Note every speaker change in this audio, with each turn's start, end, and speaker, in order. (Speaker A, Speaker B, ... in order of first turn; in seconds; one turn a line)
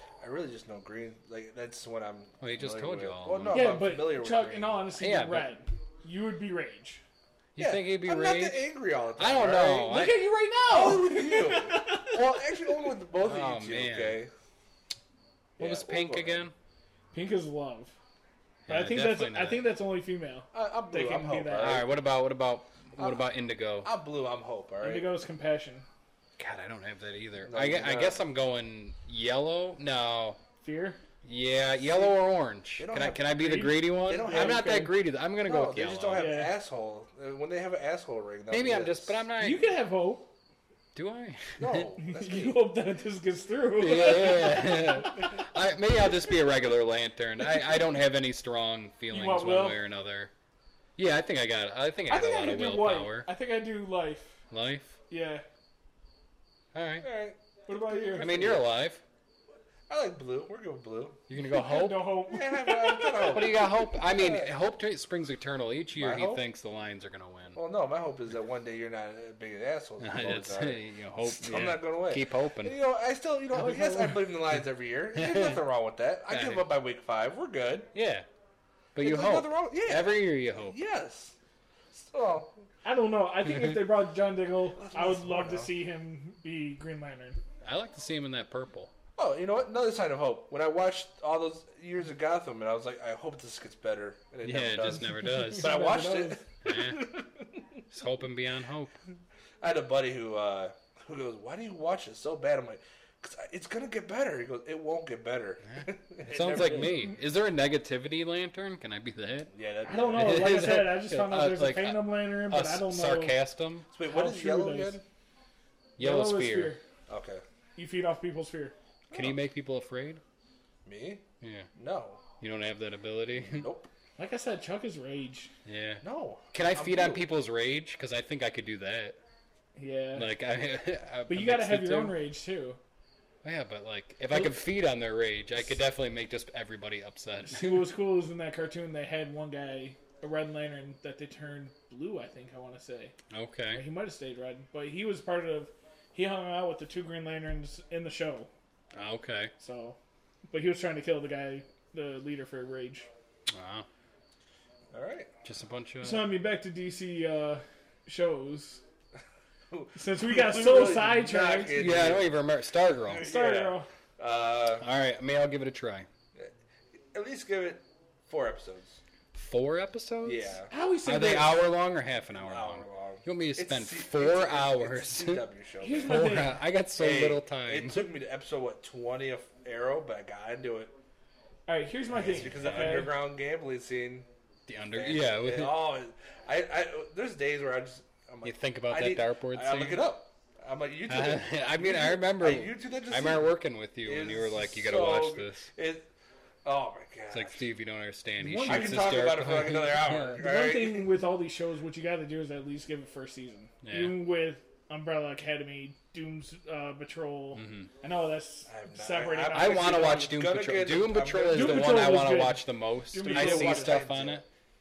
Speaker A: 0.2-4.8
Speaker B: 2.4-3.8
Speaker C: 3.5-7.0
Speaker B: 5.0-5.5
Speaker B: 7.5-8.6
Speaker A: 7.6-10.0
Speaker B: 9.2-10.3
Speaker C: 9.8-12.8
Speaker A: 10.7-14.3
Speaker B: 13.2-14.2
Speaker A: 15.6-16.5
Speaker B: 15.6-16.5
Speaker C: 17.1-17.9
Speaker B: 18.7-19.6
Speaker C: 18.7-21.8
Speaker A: 20.5-21.9
Speaker B: 21.6-23.9
Speaker A: 23.0-23.2
Speaker A: 23.8-25.1
Speaker C: 24.8-25.9
Speaker B: 26.4-30.4
Speaker A: 27.4-28.2
Speaker C: 30.6-31.0
Speaker B: 31.2-36.3
Speaker A: 31.9-32.1
Speaker A: 32.8-33.3
Speaker C: 33.3-34.9
Speaker A: 34.0-34.9
Speaker A: 35.4-39.2
Speaker C: 36.1-36.5
Speaker B: 38.5-39.6
Speaker C: 39.4-40.3
Speaker B: 40.9-41.9
Speaker A: 41.6-42.6
Speaker C: 42.0-45.4
Speaker B: 43.8-50.3
Speaker C: 49.1-49.8
Speaker B: 51.0-53.3
Speaker C: 52.1-54.4
Speaker B: 54.5-55.0
Speaker C: 55.1-55.4
Speaker B: 56.7-57.1
Speaker A: 57.0-58.7
Speaker C: 57.7-58.4
Speaker B: 58.2-59.0
Speaker A: 59.9-61.2
Speaker B: 61.3-62.2
Speaker C: 61.4-63.5
Speaker A: 62.3-64.5
Speaker B: 63.2-67.6
Speaker A: 65.9-66.4
Speaker A: 67.5-77.9
Speaker B: 70.0-72.8
Speaker C: 73.5-74.1
Speaker B: 75.1-75.6
Speaker B: 76.3-76.7
Speaker B: 77.9-78.3
Speaker B: 78.9-80.8
Speaker A: 79.0-81.3
Speaker A: 81.9-82.6
Speaker C: 82.8-87.4
Speaker A: 84.7-85.7
Speaker B: 87.6-88.9
Speaker A: 89.2-97.8
Speaker B: 94.4-95.8
Speaker C: 95.2-96.4
Speaker B: 96.6-97.1
Speaker B: 97.9-98.9
Speaker A: 99.6-107.0
Speaker B: 105.7-109.5
Speaker A: 109.5-110.7
Speaker C: 109.8-113.4
Speaker B: 110.1-113.9
Speaker A: 113.9-115.0
Speaker C: 114.0-115.0
Speaker B: 116.0-116.8
Speaker C: 116.0-116.8
Speaker A: 117.1-117.4
Speaker C: 117.8-118.7
Speaker A: 119.1-119.4
Speaker B: 119.1-120.2
Speaker A: 120.8-121.2
Speaker B: 121.4-121.7
Speaker A: 121.8-122.2
Speaker B: 122.4-123.7
Speaker A: 123.4-123.9
Speaker C: 124.2-125.5
Speaker B: 125.6-129.2
Speaker A: 126.0-127.2
Speaker C: 129.8-130.3
Speaker B: 130.1-132.2
Speaker C: 131.3-132.8
Speaker B: 133.4-137.9
Speaker C: 134.3-134.7
Speaker C: 137.4-143.1
Speaker B: 143.3-143.8
Speaker C: 143.7-148.5
Speaker B: 148.9-149.5
Speaker C: 149.6-150.0
Speaker C: 150.5-153.1
Speaker B: 153.5-153.9
Speaker A: 154.9-155.3
Speaker B: 155.4-156.3
Speaker C: 156.0-158.8
Speaker A: 159.7-162.3
Speaker C: 159.9-161.8
Speaker B: 161.7-163.3
Speaker A: 163.1-164.8
Speaker C: 163.2-163.9
Speaker B: 164.8-166.1
Speaker A: 167.1-169.0
Speaker B: 169.3-175.4
Speaker A: 170.2-170.7
Speaker C: 170.7-171.6
Speaker A: 172.3-176.3
Speaker C: 175.8-176.6
Speaker B: 176.0-178.1
Speaker A: 177.0-180.9
Speaker C: 181.7-183.1
Speaker A: 182.1-184.3
Speaker B: 182.5-183.1
Speaker B: 184.7-185.7
Speaker A: 184.9-193.5
Speaker B: 188.4-190.0
Speaker B: 191.1-195.7
Speaker A: 194.0-196.1
Speaker A: 196.6-197.6
Speaker B: 197.3-200.4
Speaker C: 198.4-199.2
Speaker A: 198.7-201.1
Speaker C: 200.4-210.2
Speaker B: 203.8-204.2
Speaker B: 207.5-207.9
Speaker A: 208.7-212.2
Speaker B: 209.5-214.4
Speaker C: 211.5-214.0
Speaker A: 213.2-214.4